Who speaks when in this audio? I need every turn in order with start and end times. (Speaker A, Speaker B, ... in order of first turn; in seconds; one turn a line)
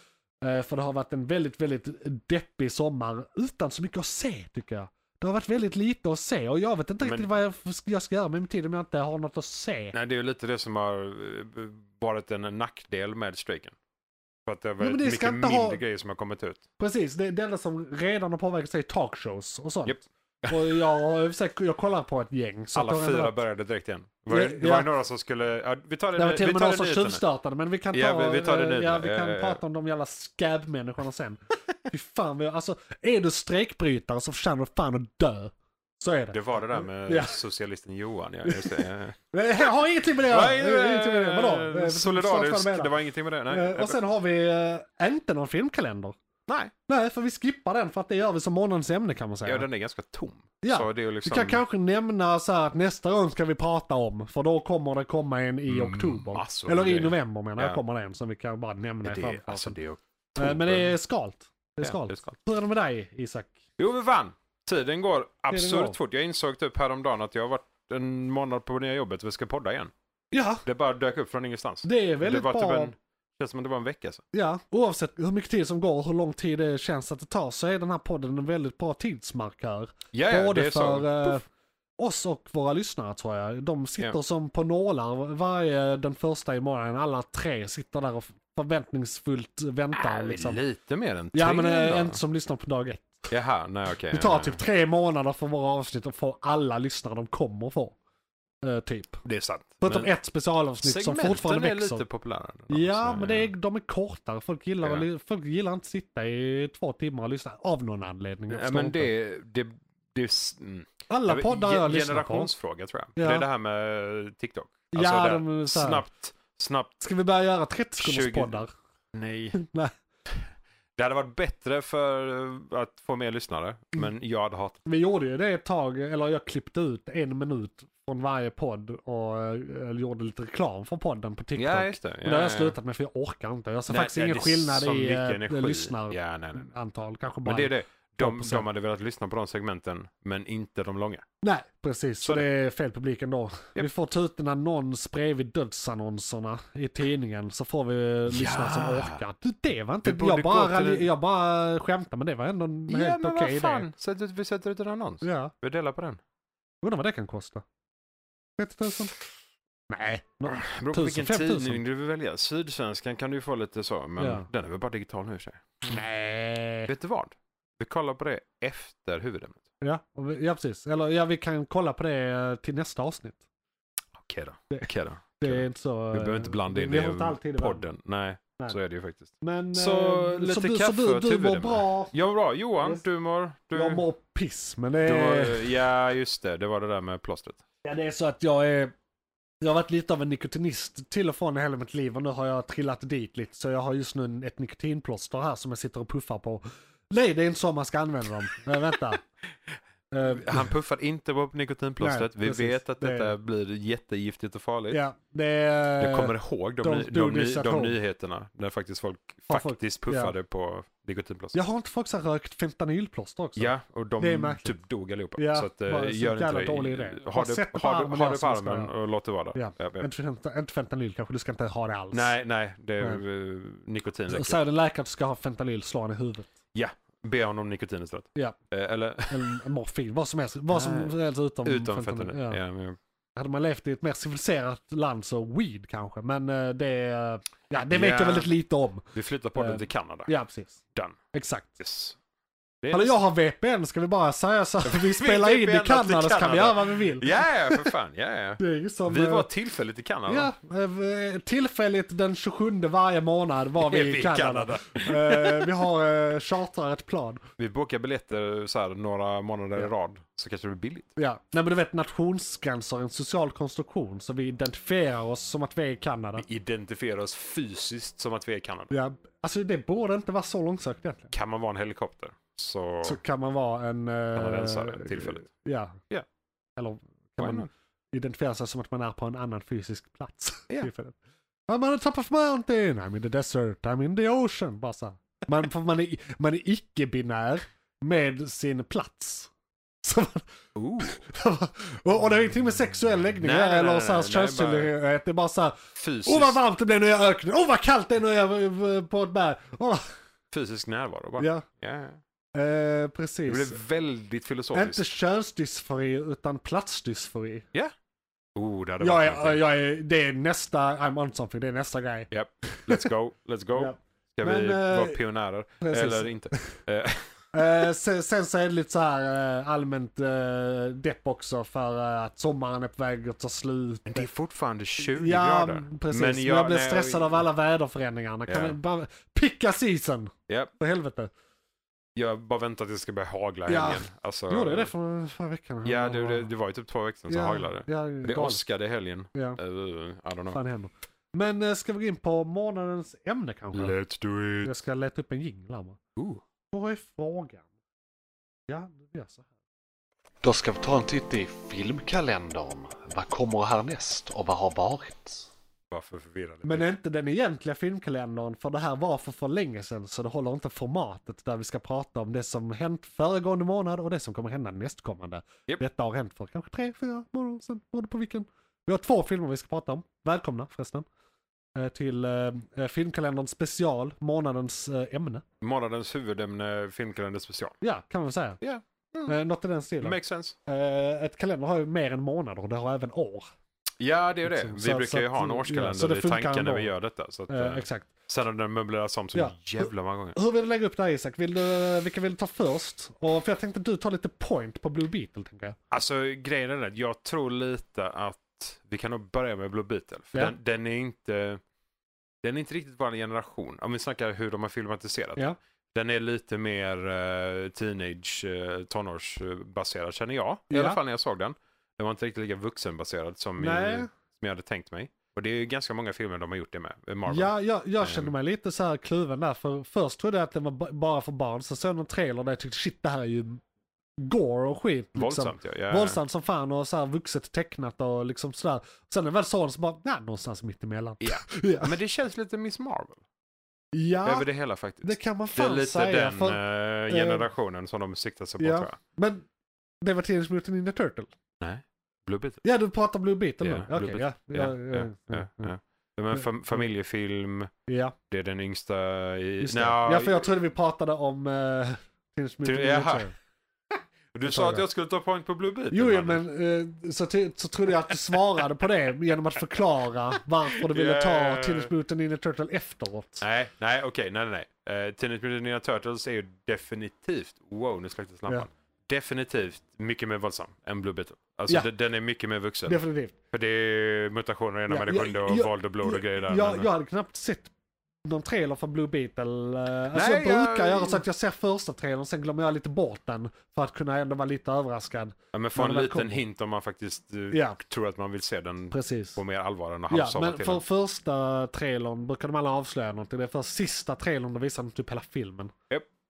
Speaker A: 0.4-9.9
Speaker B: 9.9-13.8
Speaker B: 14.5-16.6
Speaker A: 14.8-15.8
Speaker A: 16.8-23.4
Speaker B: 19.9-20.8
Speaker B: 22.8-27.2
Speaker A: 24.3-24.9
Speaker A: 26.2-37.4
Speaker B: 27.9-29.6
Speaker B: 36.3-39.7
Speaker A: 38.5-42.9
Speaker B: 40.2-44.0
Speaker A: 43.5-46.1
Speaker B: 46.5-46.7
Speaker A: 46.9-49.7
Speaker B: 49.5-51.6
Speaker A: 50.6-59.8
Speaker B: 55.7-57.8
Speaker B: 59.0-60.9
Speaker A: 60.4-63.6
Speaker B: 61.8-62.4
Speaker B: 63.8-69.9
Speaker A: 65.5-66.0
Speaker A: 70.3-70.6
Speaker B: 70.7-74.2
Speaker A: 71.8-72.9
Speaker A: 74.3-81.4
Speaker B: 80.1-81.4
Speaker A: 82.0-90.6
Speaker B: 89.9-92.2
Speaker A: 91.3-93.3
Speaker B: 93.3-94.6
Speaker A: 94.1-98.0
Speaker A: 98.6-99.2
Speaker B: 99.2-100.1
Speaker A: 99.8-102.0
Speaker B: 100.8-103.5
Speaker A: 102.7-109.1
Speaker B: 104.8-105.1
Speaker B: 108.5-117.1
Speaker A: 111.1-112.5
Speaker A: 113.2-113.4
Speaker A: 114.9-116.0
Speaker A: 117.0-118.7
Speaker B: 118.0-118.6
Speaker B: 119.1-119.6
Speaker A: 119.5-119.9
Speaker B: 120.3-124.8
Speaker A: 124.8-138.7
Speaker B: 131.6-132.8
Speaker B: 133.9-136.7
Speaker B: 137.4-141.2
Speaker A: 141.4-153.9
Speaker B: 148.3-149.2
Speaker B: 150.0-151.1
Speaker B: 152.9-156.2
Speaker A: 155.2-155.5
Speaker A: 156.8-157.6
Speaker A: 158.6-159.2
Speaker A: 159.9-161.8
Speaker B: 160.5-166.0
Speaker A: 164.2-164.5
Speaker A: 165.9-166.9
Speaker B: 166.9-169.6
Speaker A: 169.8-173.4
Speaker B: 174.2-184.0
Speaker A: 175.4-177.9
Speaker A: 179.4-182.1
Speaker A: 183.7-185.7
Speaker B: 185.0-187.6
Speaker A: 187.8-188.9
Speaker A: 189.6-199.2
Speaker A: 200.1-200.7
Speaker B: 200.2-205.0
Speaker A: 202.0-203.3
Speaker A: 204.9-208.0
Speaker B: 206.0-211.6
Speaker A: 209.5-210.3
Speaker A: 211.5-214.8
Speaker B: 213.6-220.1
Speaker A: 215.4-218.9
Speaker A: 219.5-222.3
Speaker B: 222.1-224.6
Speaker A: 224.3-226.5
Speaker B: 226.7-229.6
Speaker A: 229.3-232.6
Speaker B: 230.7-233.0
Speaker A: 233.4-240.8
Speaker B: 237.7-238.5
Speaker B: 239.1-240.3
Speaker A: 241.3-241.8
Speaker B: 241.8-242.2
Speaker B: 242.8-243.2
Speaker A: 242.9-247.9
Speaker B: 244.8-250.5
Speaker A: 248.6-249.5
Speaker A: 250.3-257.4
Speaker B: 253.8-255.7
Speaker B: 257.6-261.1
Speaker A: 261.2-266.4
Speaker B: 266.4-268.9
Speaker A: 268.9-271.3
Speaker B: 271.3-273.2
Speaker A: 273.0-276.0
Speaker B: 274.4-275.5
Speaker A: 276.8-281.2
Speaker B: 277.4-277.7
Speaker A: 281.7-289.5
Speaker A: 290.0-290.5
Speaker B: 290.8-291.2
Speaker A: 291.0-300.0
Speaker B: 293.4-294.9
Speaker B: 296.0-296.6
Speaker B: 300.5-302.2
Speaker A: 301.4-301.6
Speaker A: 302.6-303.8
Speaker B: 303.5-305.0
Speaker A: 304.7-307.7
Speaker B: 308.6-309.6
Speaker A: 309.0-313.1
Speaker B: 312.3-317.3
Speaker A: 313.8-315.2
Speaker A: 315.8-316.8
Speaker A: 317.5-324.3
Speaker B: 324.1-327.4
Speaker A: 325.0-331.3
Speaker B: 328.5-328.8
Speaker B: 332.1-334.9
Speaker A: 333.7-336.5
Speaker B: 335.9-340.6
Speaker A: 337.3-338.6
Speaker A: 339.3-339.6
Speaker A: 340.5-344.0
Speaker B: 343.7-344.7
Speaker A: 344.6-346.0
Speaker B: 346.1-346.4
Speaker A: 346.7-347.6
Speaker A: 348.7-349.5
Speaker C: 350.4-355.5
Speaker B: 355.9-356.9
Speaker A: 356.6-371.0
Speaker A: 371.8-375.4
Speaker B: 375.6-377.8
Speaker A: 377.8-378.6
Speaker B: 378.6-379.3
Speaker A: 379.3-383.5
Speaker B: 380.0-380.6
Speaker B: 384.0-390.4
Speaker A: 384.5-386.9
Speaker A: 387.5-388.1
Speaker A: 389.3-395.8
Speaker B: 395.9-401.6
Speaker B: 402.4-418.3
Speaker A: 410.7-411.0
Speaker A: 413.6-414.1
Speaker A: 417.3-423.6
Speaker A: 424.2-431.9
Speaker B: 425.1-426.2
Speaker B: 431.2-433.2
Speaker A: 433.9-434.5
Speaker B: 434.2-439.0
Speaker A: 435.0-437.4
Speaker A: 438.6-439.5
Speaker A: 440.0-441.3
Speaker B: 441.6-442.6
Speaker A: 442.6-445.7
Speaker B: 443.6-447.7
Speaker A: 447.9-448.1
Speaker B: 448.3-450.5
Speaker A: 449.6-453.4
Speaker B: 452.6-453.3
Speaker B: 454.3-456.4
Speaker A: 454.4-454.9
Speaker A: 455.9-463.4
Speaker B: 460.8-461.9
Speaker B: 463.4-473.0
Speaker A: 472.9-473.4
Speaker B: 473.5-476.9
Speaker A: 474.9-477.7
Speaker A: 478.2-486.4
Speaker B: 480.1-481.2
Speaker B: 485.5-490.8
Speaker A: 487.5-487.8
Speaker A: 488.9-489.4
Speaker A: 490.1-495.7